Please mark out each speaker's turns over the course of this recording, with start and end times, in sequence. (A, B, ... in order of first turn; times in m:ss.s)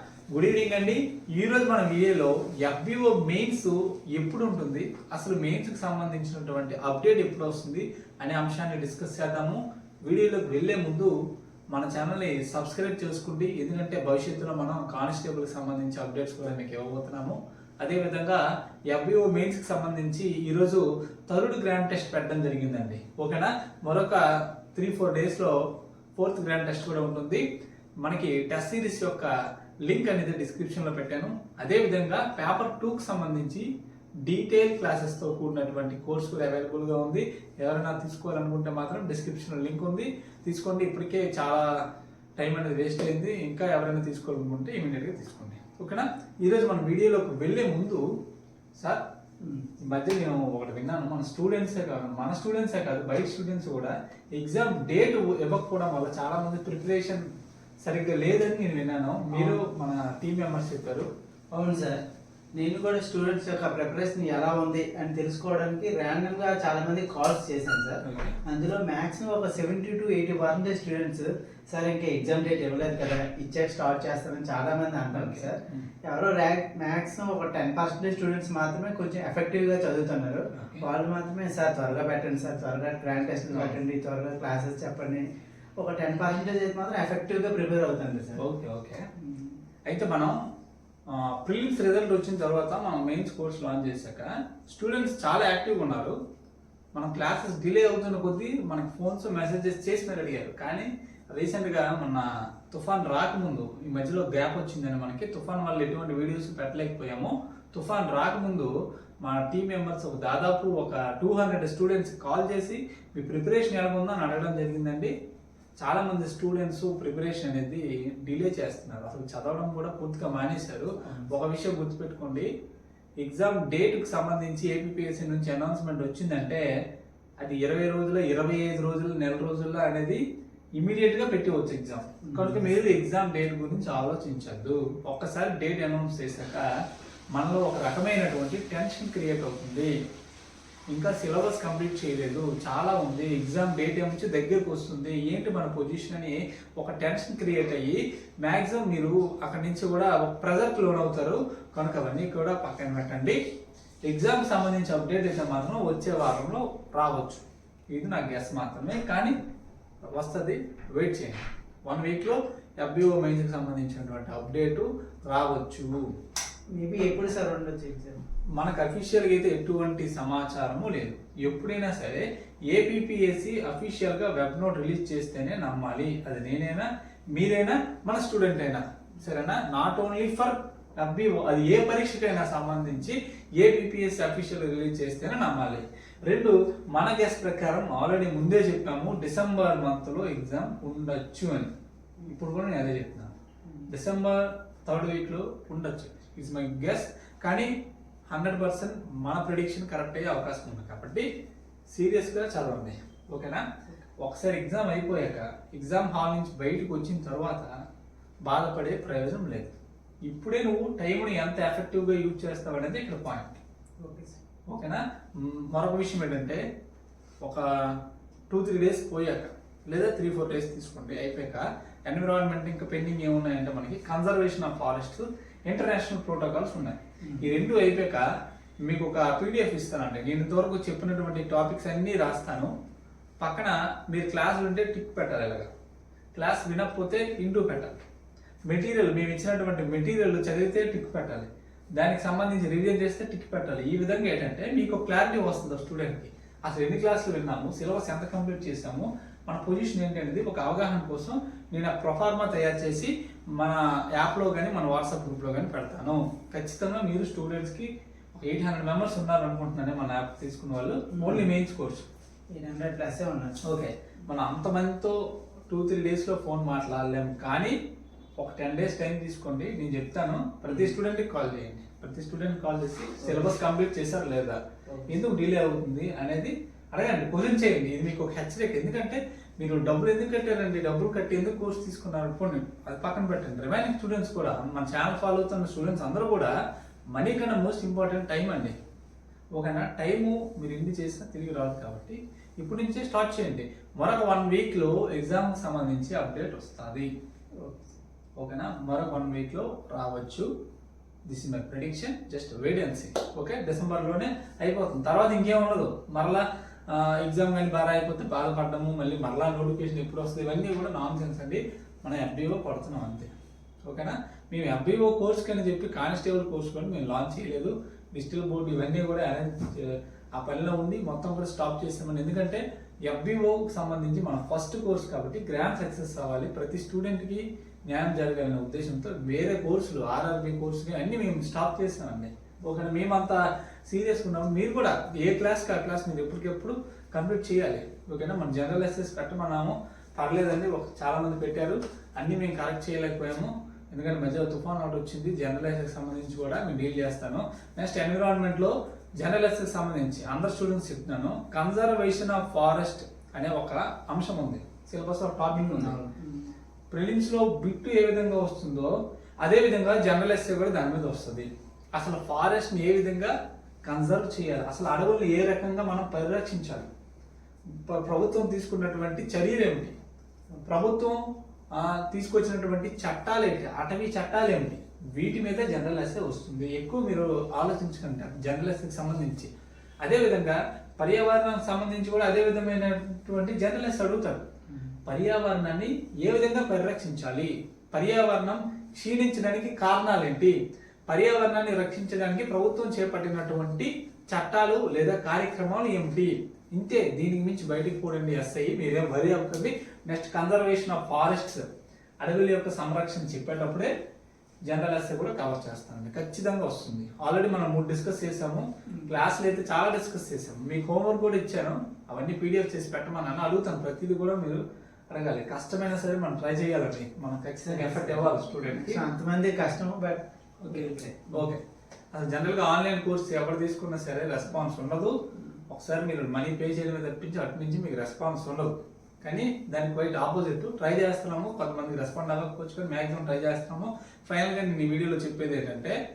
0:00.3-0:11.1 A
0:11.7-0:24.2 A
0:24.7-0:25.6 A
0:26.2-0:27.4 A
0:28.0-0:29.3 A
0:29.9-0:33.7 A
0:34.2-0:41.7 A
0:42.4-0:48.0 A
0:49.4-0:49.7 B
0:49.8-0:57.2 A
0:57.8-1:01.1 A
0:59.3-0:59.6 B
1:01.5-1:02.0 B
1:02.6-1:25.2 B
1:08.0-1:08.4 A
1:15.1-1:15.9 A
1:20.5-1:20.8 A
1:25.8-1:28.4 B
1:28.4-1:29.1 A
1:29.2-1:29.6 B
1:29.9-1:30.4 A
1:31.1-1:36.2 A
1:36.9-1:55.1 A
1:55.8-2:02.5 A
2:03.2-2:06.6 A
2:07.4-2:10.2 A
2:10.8-2:16.7 A
2:12.2-2:12.8 B
2:17.3-2:19.9 A
2:20.9-2:33.4 A
2:34.1-2:39.4 A
2:40.1-2:46.0 A
2:46.8-2:48.2 B
2:48.6-3:13.3 A
3:13.9-3:17.7 A
3:18.3-3:21.3 A
3:21.9-3:23.7 A
3:24.2-3:27.7 A
3:28.4-3:29.8 A
3:30.2-3:33.5 A
3:34.0-3:34.4 B
3:34.7-3:36.6 A
3:37.4-3:48.3 A
3:47.2-3:47.5 B
3:48.8-3:52.7 A
3:53.4-3:55.7 A
3:56.3-3:58.0 A
3:58.7-4:22.1 A
4:21.2-4:21.5 B
4:22.5-4:23.6 B
4:23.6-4:25.2 A
4:25.7-4:27.8 A
4:28.4-4:46.5 A
4:30.7-4:30.9 B
4:47.2-4:48.8 A
4:49.6-4:57.1 A
4:57.6-4:58.0 B
4:58.4-5:00.5 A
5:01.3-5:13.3 A
5:13.8-5:56.0 A
5:55.6-5:56.5 B
5:56.9-6:03.3 A
6:03.9-6:06.9 A
6:07.7-6:10.0 A
6:10.6-6:11.2 A
6:11.7-6:19.5 A
6:20.0-6:24.5 A
6:25.0-6:30.6 A
6:31.1-6:41.7 A
6:42.2-6:43.9 A
6:44.7-6:59.0 A
6:48.9-6:49.2 B
6:57.7-7:01.4 B
7:00.6-7:01.6 A
7:02.1-7:05.2 A
7:05.7-7:16.0 A